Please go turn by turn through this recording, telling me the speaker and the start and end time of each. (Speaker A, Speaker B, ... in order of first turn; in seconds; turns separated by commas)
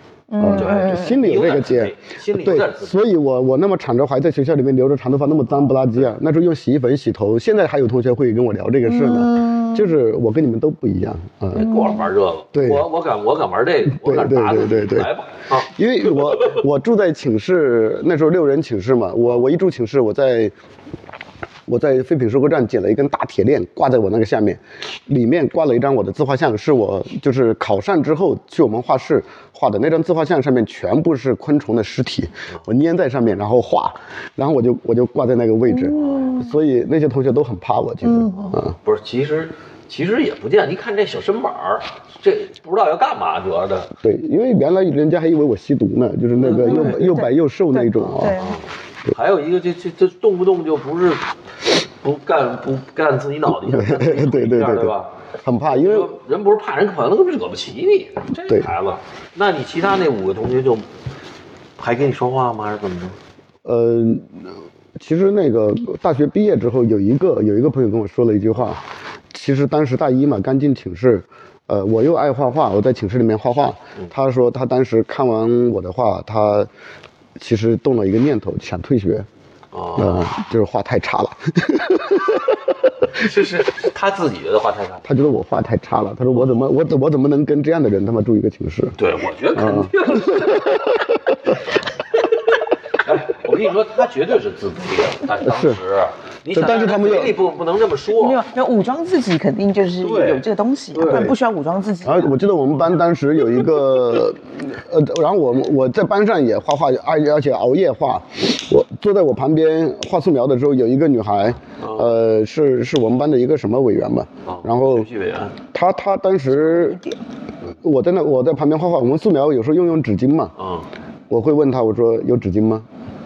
Speaker A: 0.3-1.2, Speaker B: 0.4-11.7, Speaker C: 0.5-3.0, Speaker A: 8.8-9.9, Speaker C: 11.5-16.6, Speaker A: 11.6-12.1, Speaker B: 12.5-12.9, Speaker B: 13.8-20.5, Speaker B: 21.7-38.7, Speaker A: 35.7-36.5, Speaker C: 35.9-36.3, Speaker A: 38.0-38.5, Speaker C: 38.3-43.9, Speaker B: 44.0-48.4, Speaker C: 46.4-47.1, Speaker A: 46.5-48.6, Speaker C: 48.2-51.2, Speaker C: 51.9-55.1, Speaker B: 53.5-56.1, Speaker C: 55.7-60.9, Speaker C: 61.8-63.2, Speaker B: 63.6-76.7, Speaker B: 77.4-79.3, Speaker C: 79.7-80.3, Speaker B: 80.0-82.6, Speaker C: 83.0-85.0, Speaker B: 85.0-89.0, Speaker C: 89.0-90.9, Speaker B: 89.5-91.5, Speaker C: 93.0-98.4, Speaker B: 95.4-95.8, Speaker B: 96.5-97.4, Speaker A: 98.1-102.3, Speaker C: 100.0-100.4, Speaker C: 100.9-101.3, Speaker B: 101.0-101.4, Speaker B: 102.0-115.1, Speaker C: 111.8-112.1, Speaker C: 114.5-115.5, Speaker B: 115.6-117.0, Speaker A: 116.7-117.2, Speaker B: 117.8-120.5, Speaker C: 120.6-120.9, Speaker B: 121.3-122.8